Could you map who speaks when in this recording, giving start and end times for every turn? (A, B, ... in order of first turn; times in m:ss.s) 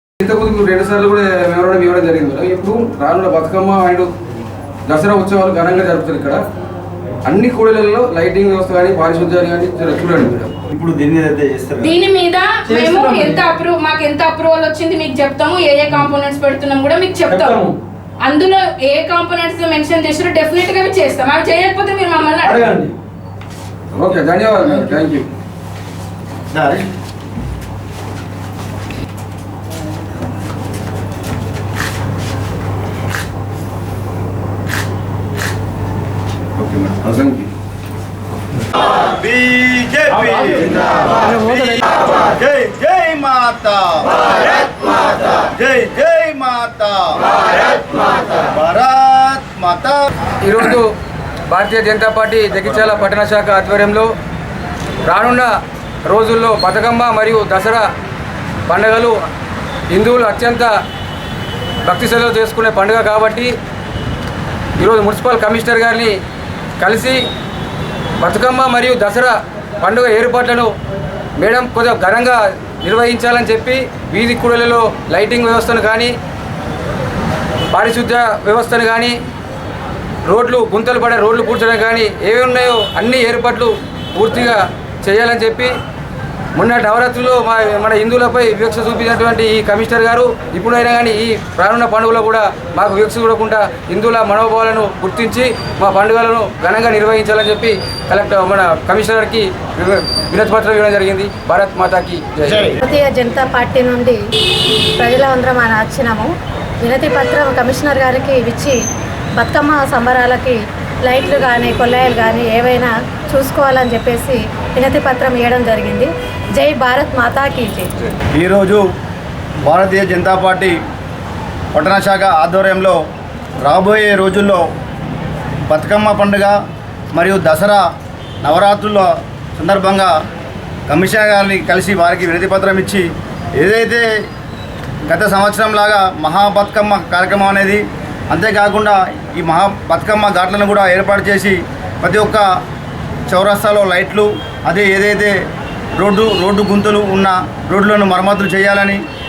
0:00.2-0:04.1 A
0:04.9-0:06.4 A
0:07.2-0:10.5 A
0:10.7-0:11.9 B
0:11.8-0:17.6 C
0:12.7-0:13.5 A
0:17.3-0:17.8 A
0:18.2-0:22.8 C
0:22.4-0:23.0 A
0:24.0-0:25.3 A
0:26.5-0:26.8 B
0:36.6-0:37.0 B
0:38.9-0:44.5 B
0:45.3-0:47.6 B
0:48.4-0:50.0 B
0:50.4-0:50.9 A
0:51.5-0:54.1 A
0:52.6-0:52.9 B
0:55.1-0:55.5 A
0:56.1-0:57.9 A
0:58.7-0:59.2 A
0:59.9-1:00.7 A
1:01.8-1:03.5 A
1:04.8-1:06.2 A
1:06.8-1:07.2 A
1:08.2-1:10.7 A
1:11.4-1:16.1 A
1:17.7-1:19.2 A
1:20.2-1:25.7 A
1:26.6-1:42.8 A
1:42.8-1:44.2 D
1:45.0-1:48.8 D
1:49.4-1:57.9 D
1:58.4-1:58.8 B
1:59.6-2:00.7 B
2:01.7-2:03.0 B
2:03.6-2:04.6 B
2:05.7-2:06.6 B
2:07.1-2:07.8 B
2:08.4-2:10.1 B
2:10.9-2:13.0 B
2:13.6-2:14.0 B
2:15.1-2:22.4 B
2:23.3-2:25.4 B
2:26.0-2:29.0 B